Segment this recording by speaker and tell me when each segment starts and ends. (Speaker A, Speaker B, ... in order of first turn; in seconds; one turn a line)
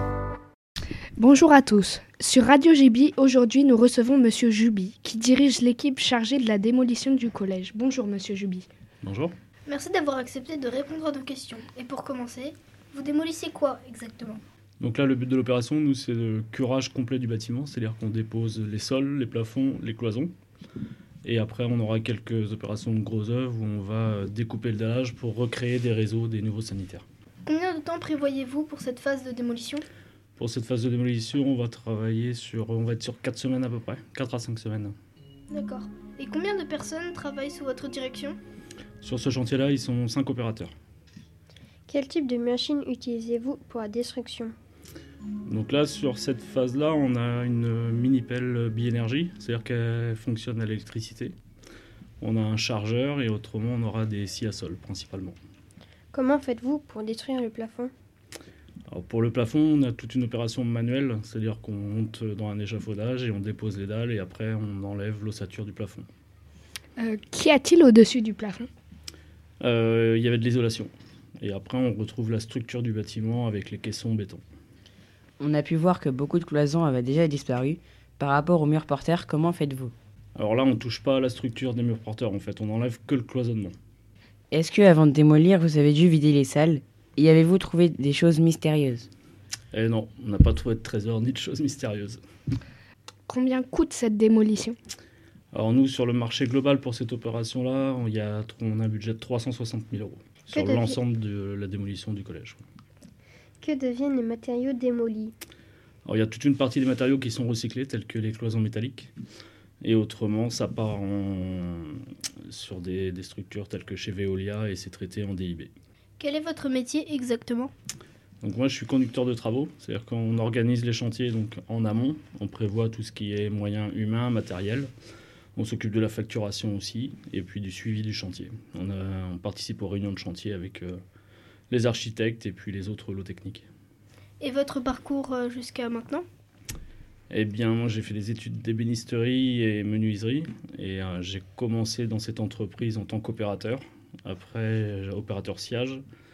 Speaker A: 1.2-8.7
Speaker B: 9.0-9.3
Speaker C: 9.7-14.4
Speaker B: 14.8-20.3
Speaker B: 21.2-27.1
Speaker C: 27.5-29.9
Speaker B: 30.4-34.9
Speaker C: 35.5-38.4
Speaker B: 39.0-40.7
Speaker D: 41.9-44.5
Speaker B: 45.5-51.4
Speaker B: 52.2-55.4
Speaker D: 56.1-57.9
Speaker B: 58.9-66.1
Speaker A: 67.0-68.7
Speaker B: 69.6-74.4
Speaker E: 75.4-79.9
Speaker B: 80.4-83.7
Speaker E: 84.5-89.1
Speaker B: 89.7-92.2
Speaker A: 93.3-94.8
Speaker B: 95.5-102.6
Speaker D: 100.5-101.0
Speaker D: 103.6-105.3
Speaker B: 106.0-109.1
Speaker B: 109.8-115.7
Speaker C: 116.2-117.7
Speaker B: 118.4-124.9
Speaker B: 125.6-131.0
Speaker B: 131.7-133.7
Speaker C: 134.4-136.2
Speaker B: 137.3-146.0